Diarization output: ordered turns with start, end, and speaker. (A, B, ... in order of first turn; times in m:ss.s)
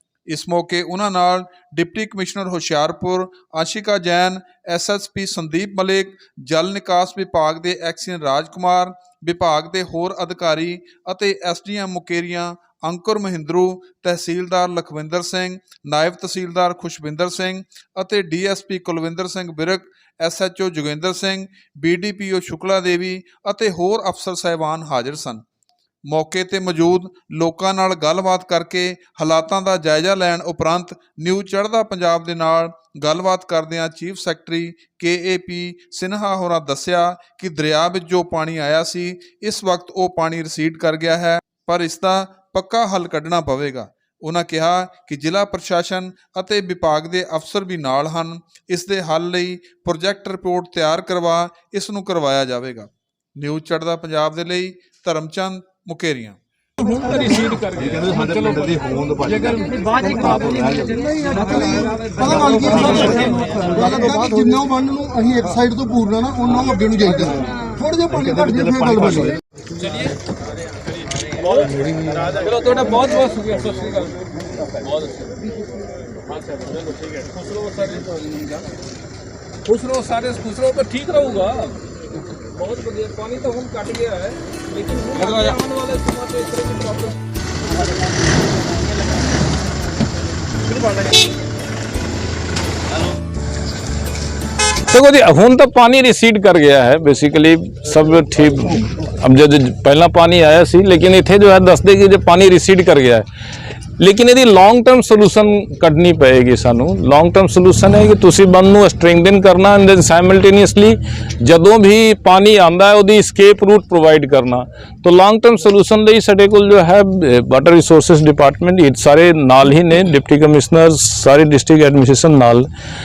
0:00.3-0:25.4 A
0:26.1-0:56.4 A
0:57.0-0:58.2 B
0:57.8-1:01.0 C
0:59.5-1:00.2 B
1:00.9-1:09.4 D
1:01.0-1:02.6 B
1:02.7-1:03.4 C
1:08.3-1:09.3 C
1:11.5-1:14.1 B
1:12.2-1:14.1 E
1:14.8-1:15.2 B
1:16.4-1:18.6 B
1:16.4-1:18.3 E
1:19.7-1:21.7 E
1:19.9-1:21.6 B
1:22.6-1:27.0 E
1:22.6-1:24.1 B
1:24.8-1:27.1 B
1:34.9-1:43.3 E
1:44.0-2:02.7 E